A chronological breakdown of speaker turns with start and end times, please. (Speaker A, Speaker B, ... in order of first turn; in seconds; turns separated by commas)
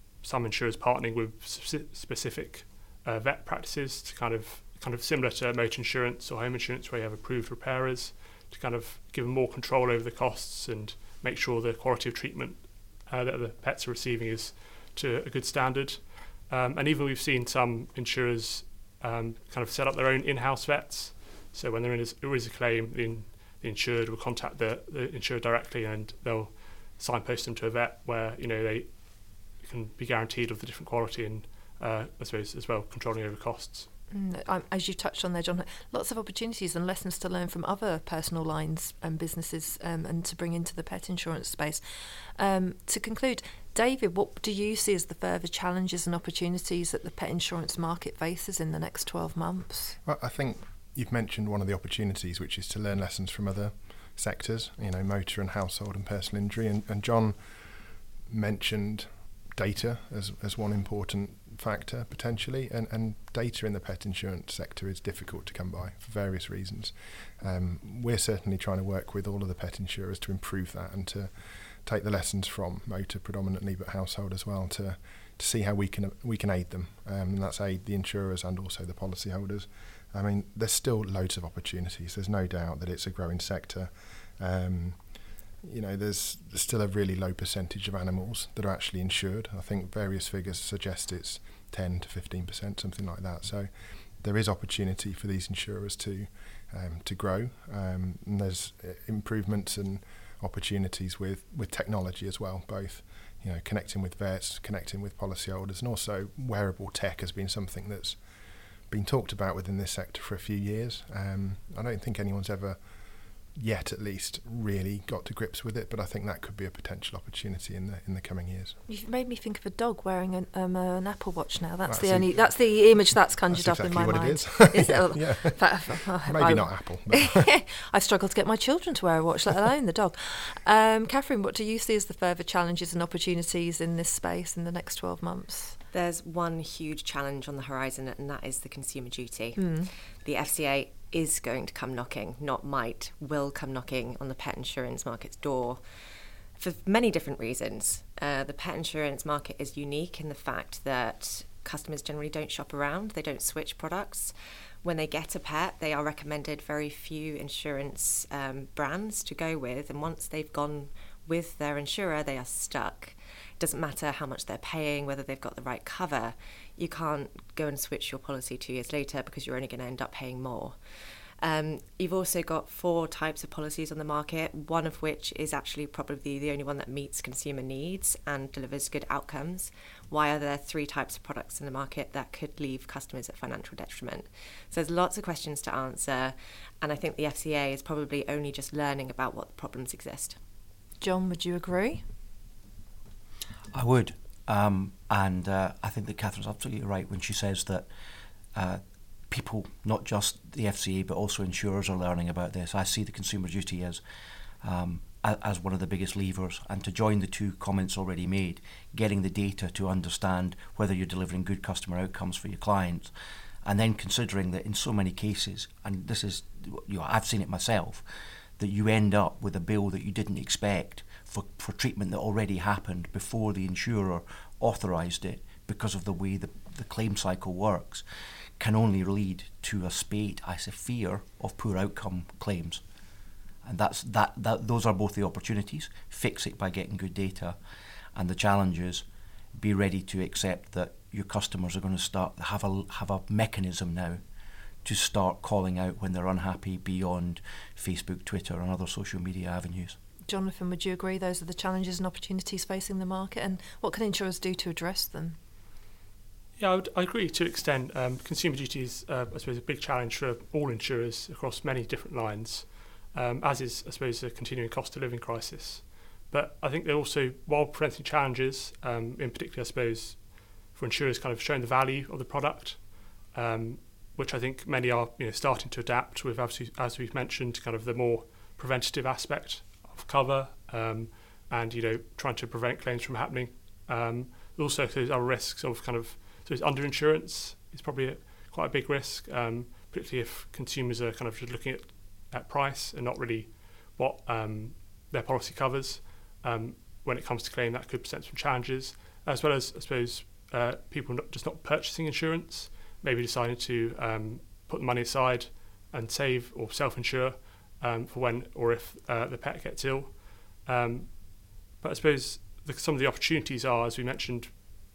Speaker A: 0.2-28.9, Speaker A: 29.6-33.9, Speaker B: 34.1-41.8, Speaker B: 42.4-50.0, Speaker C: 50.0-57.4, Speaker C: 58.3-71.3, Speaker C: 71.8-85.0, Speaker C: 85.6-93.7, Speaker C: 94.2-108.2, Speaker C: 108.9-112.8, Speaker C: 113.6-118.8, Speaker B: 118.9-135.8, Speaker C: 121.9-122.7, Speaker C: 123.5-127.5, Speaker D: 135.9-139.7, Speaker B: 139.6-139.9, Speaker D: 140.2-145.8, Speaker D: 146.6-190.4, Speaker B: 191.0-192.0, Speaker E: 193.7-197.9, Speaker E: 198.6-204.0, Speaker E: 204.6-213.1, Speaker E: 213.7-218.1, Speaker E: 218.6-228.0, Speaker E: 228.6-232.8, Speaker E: 233.6-237.6, Speaker E: 238.2-239.1, Speaker E: 239.6-244.2, Speaker E: 244.8-250.0, Speaker B: 250.3-255.4, Speaker A: 256.6-311.2, Speaker A: 311.8-314.6